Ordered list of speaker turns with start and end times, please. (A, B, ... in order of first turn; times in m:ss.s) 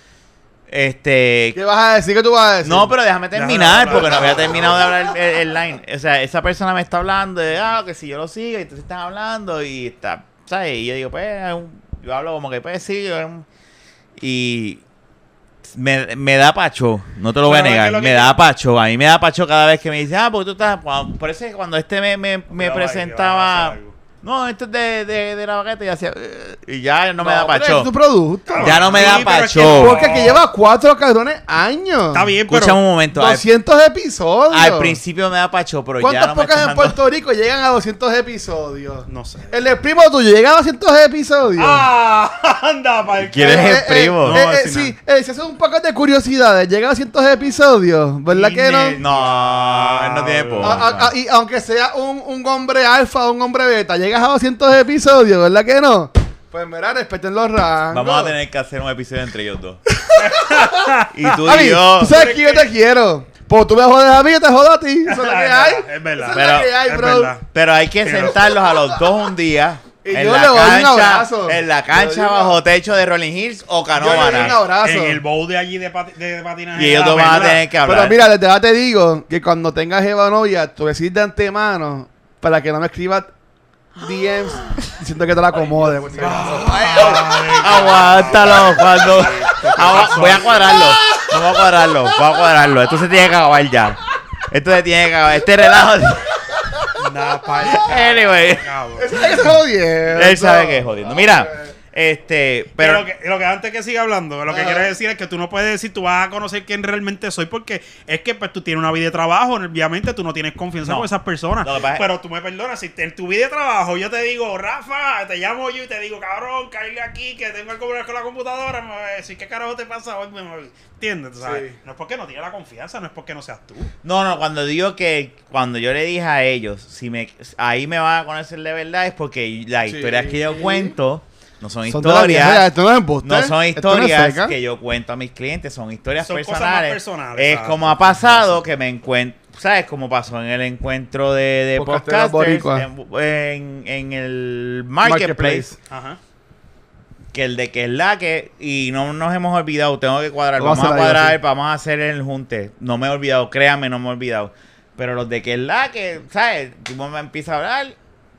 0:00.7-0:01.6 A
0:01.5-0:02.9 B
0:02.6-0:13.5 A
0:03.4-0:04.9 C
0:03.9-0:04.9 B
0:14.2-0:14.8 A
0:15.7-0:27.9 A
0:17.4-0:18.3 C
0:22.5-0:24.0 C
0:27.2-0:32.4 B
0:28.5-0:30.4 C
0:28.6-0:30.0 A
0:32.1-0:32.8 C
0:32.5-0:33.4 A
0:33.1-0:35.0 B
0:34.5-0:37.0 A
0:36.0-0:41.9 B
0:39.1-0:39.6 C
0:41.6-0:45.0 C
0:43.2-0:44.4 A
0:43.4-0:49.0 B
0:48.3-0:50.8 C
0:49.0-0:51.1 A
0:50.6-0:58.4 B
0:57.9-0:59.8 A
0:59.9-1:00.8 B
1:00.2-1:01.4 C
1:01.1-1:02.2 A
1:01.4-1:07.4 B
1:02.0-1:02.7 C
1:05.1-1:07.5 C
1:06.3-1:06.7 A
1:07.5-1:14.6 A
1:08.0-1:08.5 C
1:10.0-1:12.6 B
1:13.9-1:15.2 B
1:14.4-1:17.7 C
1:16.8-1:18.2 A
1:17.8-1:23.3 B
1:24.0-1:27.4 B
1:25.6-1:30.9 C
1:26.5-1:36.6 A
1:30.2-1:31.4 B
1:37.0-1:39.3 C
1:37.6-1:38.7 A
1:39.0-1:41.7 B
1:40.1-1:43.1 A
1:42.8-2:03.9 C
1:44.5-1:44.9 B
1:51.6-1:52.1 A
2:01.4-2:01.7 B
2:04.0-2:12.7 A
2:09.9-2:11.0 B
2:11.9-2:14.5 B
2:13.2-2:25.7 A
2:16.2-2:18.5 C
2:21.8-2:22.9 B
2:25.0-2:25.8 B
2:25.9-2:26.2 C
2:27.3-2:38.0 A
2:30.6-2:31.4 B